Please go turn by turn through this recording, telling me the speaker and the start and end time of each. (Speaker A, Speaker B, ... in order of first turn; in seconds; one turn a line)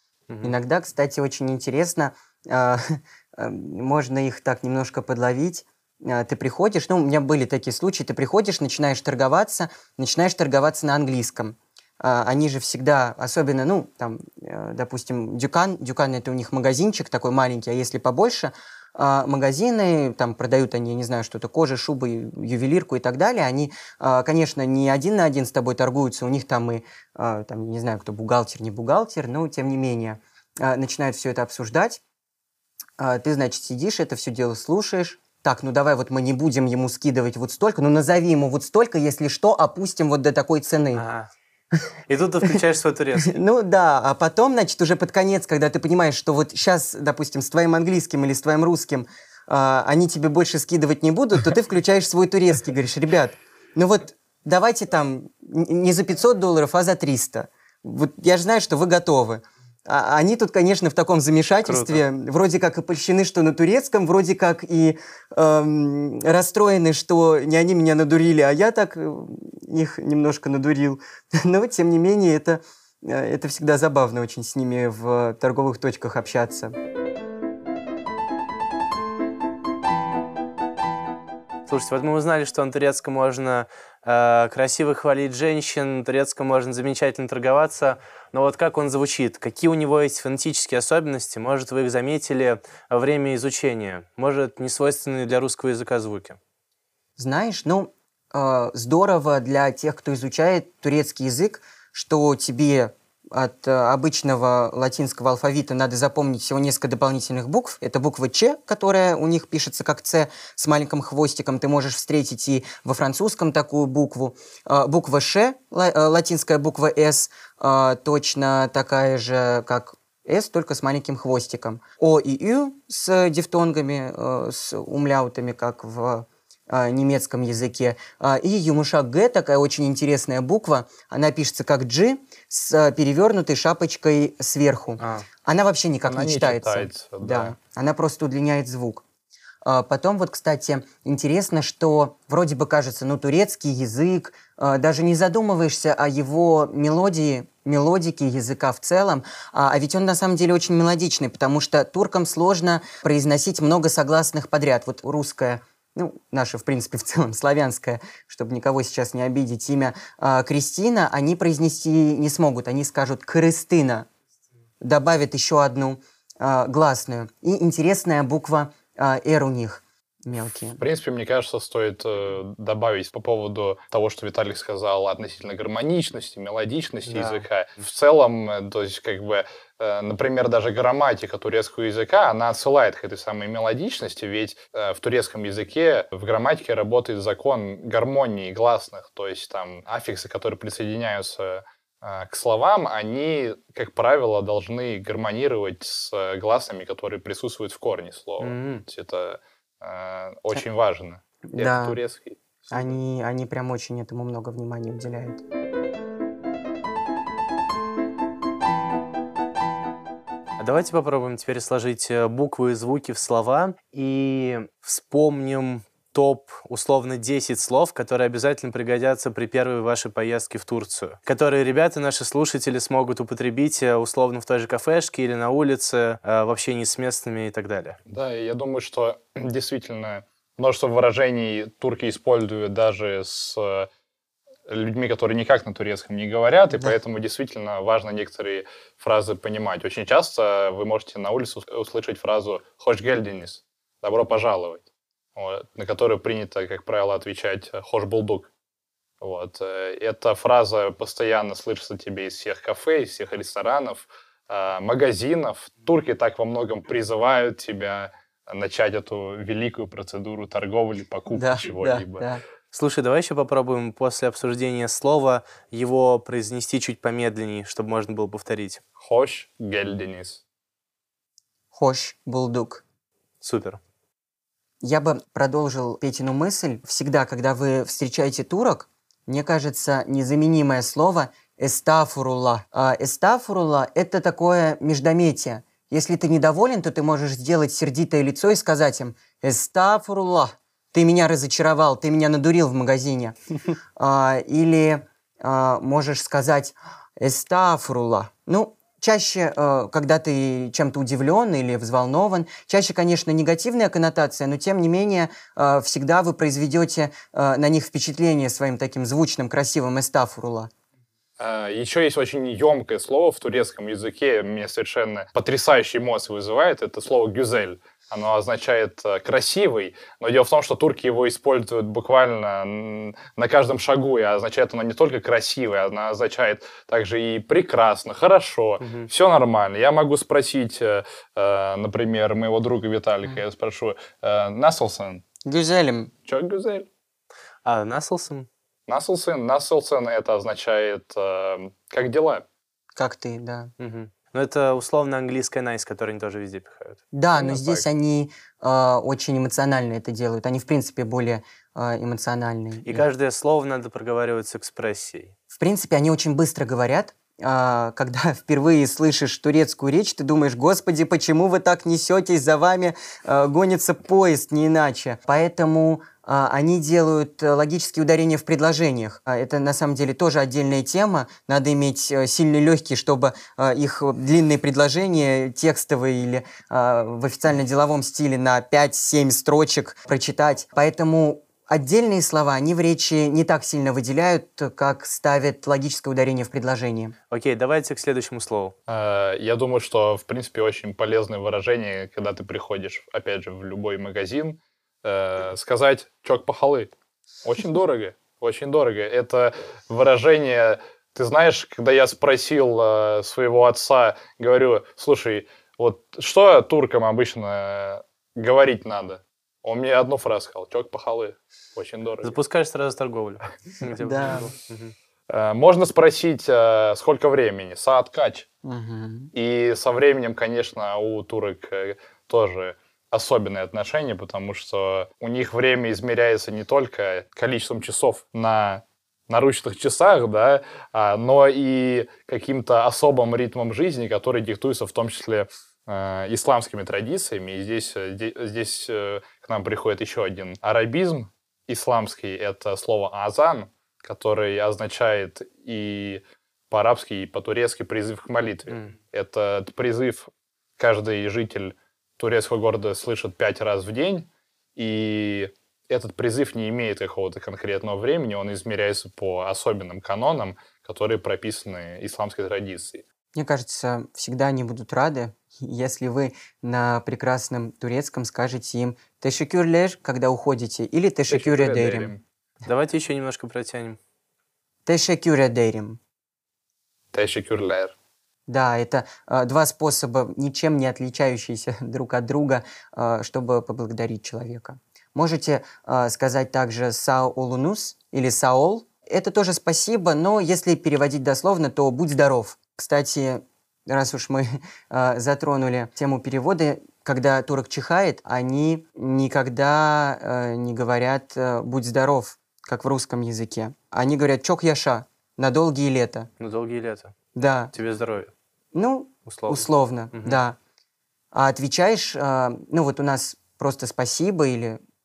Speaker A: 0.3-0.6
Speaker B: 0.4-32.0
Speaker B: 33.0-41.0
Speaker A: 41.0-41.3
Speaker A: 42.1-43.4
Speaker B: 43.2-76.7
Speaker A: 61.6-62.0
Speaker A: 81.7-96.4
Speaker B: 97.2-139.0
Speaker A: 135.0-135.3
Speaker C: 136.1-137.6
Speaker B: 139.6-164.1
Speaker B: 164.8-170.8
Speaker C: 170.8-202.8
Speaker A: 177.1-177.4
Speaker A: 198.4-198.8
Speaker B: 201.5-202.0
Speaker B: 202.7-205.4
Speaker A: 210.6-228.0
Speaker C: 228.1-233.9
Speaker C: 234.7-244.8
Speaker C: 245.3-248.5
Speaker C: 249.2-262.3
Speaker B: 261.3-262.4
Speaker A: 262.7-268.8
Speaker C: 269.0-270.4
Speaker B: 271.7-272.8
Speaker A: 273.4-273.8
Speaker B: 274.8-293.4
Speaker B: 294.0-310.7
Speaker C: 311.4-335.2
Speaker A: 328.8-329.1
Speaker B: 335.4-336.1
Speaker C: 336.3-336.9
Speaker A: 337.6-338.5
Speaker C: 338.9-342.4
Speaker B: 343.0-343.7
Speaker A: 343.8-347.0
Speaker B: 347.1-353.0
Speaker C: 347.4-347.8
Speaker A: 352.8-355.3
Speaker B: 355.5-387.1
Speaker A: 387.3-388.8
Speaker C: 388.9-396.9
Speaker C: 397.4-412.4
Speaker A: 412.2-414.9
Speaker B: 414.0-414.5
Speaker C: 415.3-418.5
Speaker B: 418.6-419.3
Speaker C: 419.3-463.0
Speaker B: 463.3-472.1
Speaker C: 471.3-472.2
Speaker A: 472.6-474.0
Speaker B: 474.9-476.0
Speaker C: 477.1-477.9
Speaker B: 478.5-506.3
Speaker A: 506.4-507.1
Speaker B: 507.4-507.7
Speaker A: 507.7-508.3
Speaker B: 508.7-510.6
Speaker A: 509.2-510.4
Speaker B: 511.3-514.8